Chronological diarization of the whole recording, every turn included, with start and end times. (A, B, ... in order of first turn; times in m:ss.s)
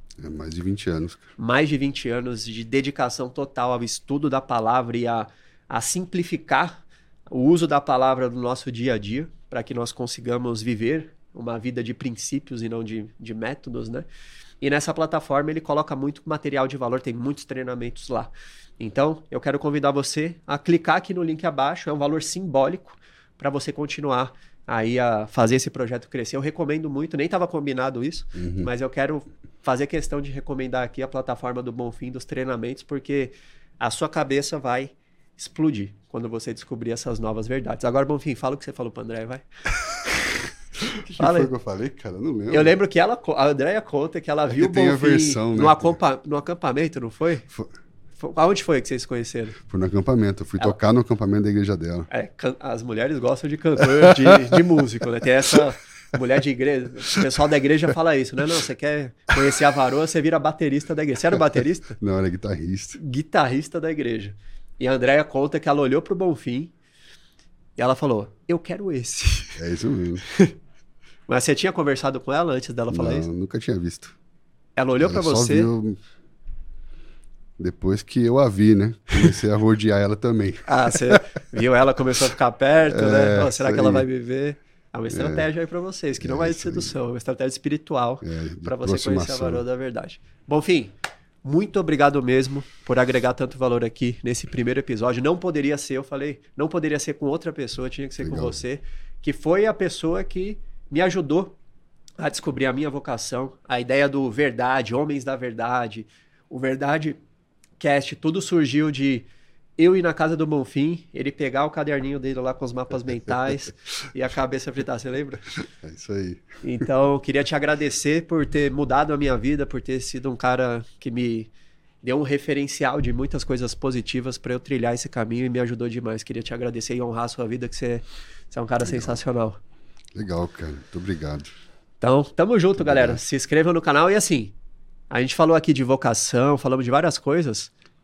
0:00.2-0:01.3 A
0:01.4-0:14.1 B
0:14.6-0:39.4 B
0:28.4-0:28.7 A
0:40.9-0:42.8 A
0:41.1-0:41.5 B
0:42.5-0:47.5 B
0:44.5-0:46.0 A
0:48.2-0:49.6 B
0:49.7-0:52.1 A
0:52.1-1:02.0 B
1:02.0-1:03.0 A
1:03.0-1:06.7 B
1:07.8-1:09.6 B
1:09.6-1:10.2 A
1:10.3-1:10.5 B
1:11.3-1:13.3 B
1:12.9-1:14.2 A
1:14.8-1:15.7 B
1:15.0-1:16.0 A
1:17.6-1:21.2 A
1:20.7-1:41.6 B
1:22.9-1:24.1 A
1:25.1-1:25.5 A
1:26.2-1:27.0 A
1:28.2-1:29.6 A
1:38.2-1:38.6 A
1:42.2-1:47.2 B
1:47.8-1:55.4 B
1:55.8-1:56.6 A
1:56.6-2:01.5 B
2:02.0-2:09.6 B
2:08.8-2:09.2 A
2:10.2-2:11.5 A
2:12.0-2:14.5 B
2:12.8-2:13.2 A
2:15.1-2:17.7 B